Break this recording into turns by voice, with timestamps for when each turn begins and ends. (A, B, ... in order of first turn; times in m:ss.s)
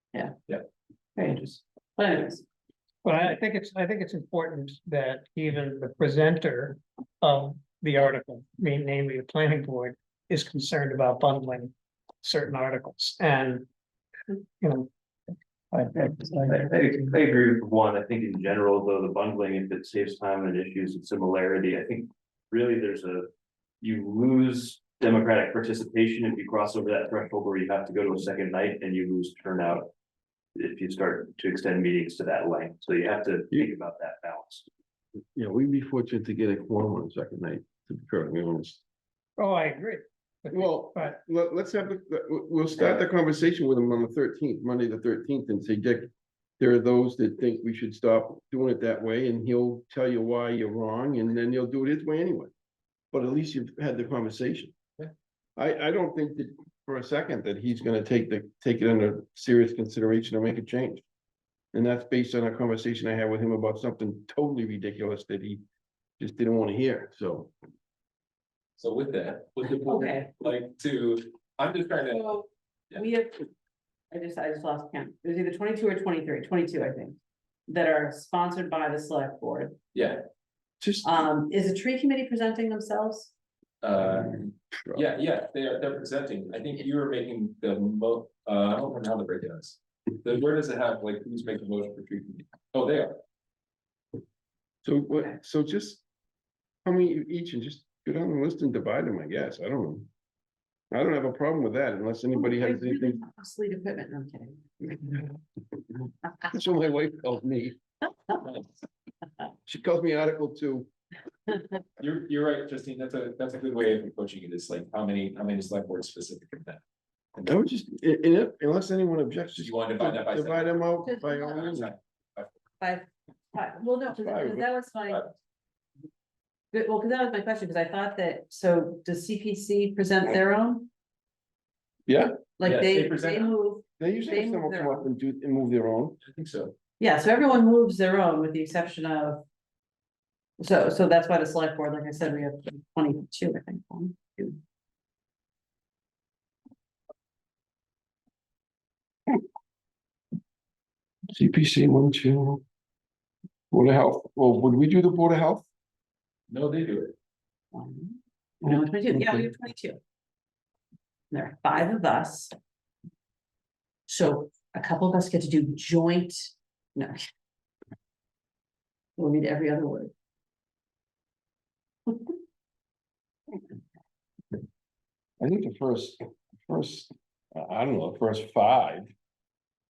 0:01.2-0:02.4 A
0:03.0-0:13.6 B
0:14.3-0:14.9 B
0:15.7-0:16.7 B
0:15.9-0:23.3 C
0:23.8-0:29.9 C
0:30.5-0:34.6 C
0:35.3-0:38.8 D
0:39.4-0:41.2 B
0:40.5-0:52.5 D
0:53.1-0:54.7 D
0:55.6-1:01.0 D
1:01.7-1:05.6 D
1:06.2-1:07.5 D
1:08.8-1:12.4 E
1:09.8-1:10.3 A
1:12.1-1:13.5 A
1:14.1-1:19.8 A
1:19.9-1:20.2 E
1:20.8-1:21.2 D
1:21.0-1:23.3 A
1:23.8-1:33.1 E
1:34.8-1:36.0 D
1:36.8-1:40.1 D
1:40.9-1:43.2 D
1:42.3-1:45.3 A
1:46.4-1:47.8 D
1:48.4-1:48.7 E
1:49.6-1:50.9 D
1:52.0-1:56.8 E
1:57.4-2:01.9 D
1:59.5-2:00.8 E
2:01.0-2:01.8 A
2:01.6-2:02.6 E
2:02.8-2:05.3 A
2:04.1-2:04.7 D
2:06.7-2:10.9 A
2:12.1-2:12.4 D
2:12.6-2:15.0 A
2:12.6-2:13.6 E
2:14.0-2:16.2 D
2:16.2-2:16.7 E
2:17.0-2:19.4 A
2:20.6-2:24.6 A
2:31.3-2:32.6 D
2:33.7-2:35.6 D
2:36.5-2:37.1 E
2:37.7-2:40.0 A
2:38.6-2:39.5 D
2:41.3-2:42.5 A
2:44.1-2:47.2 A
2:49.2-2:50.1 A
2:52.1-2:52.3 A
2:55.4-2:59.1 D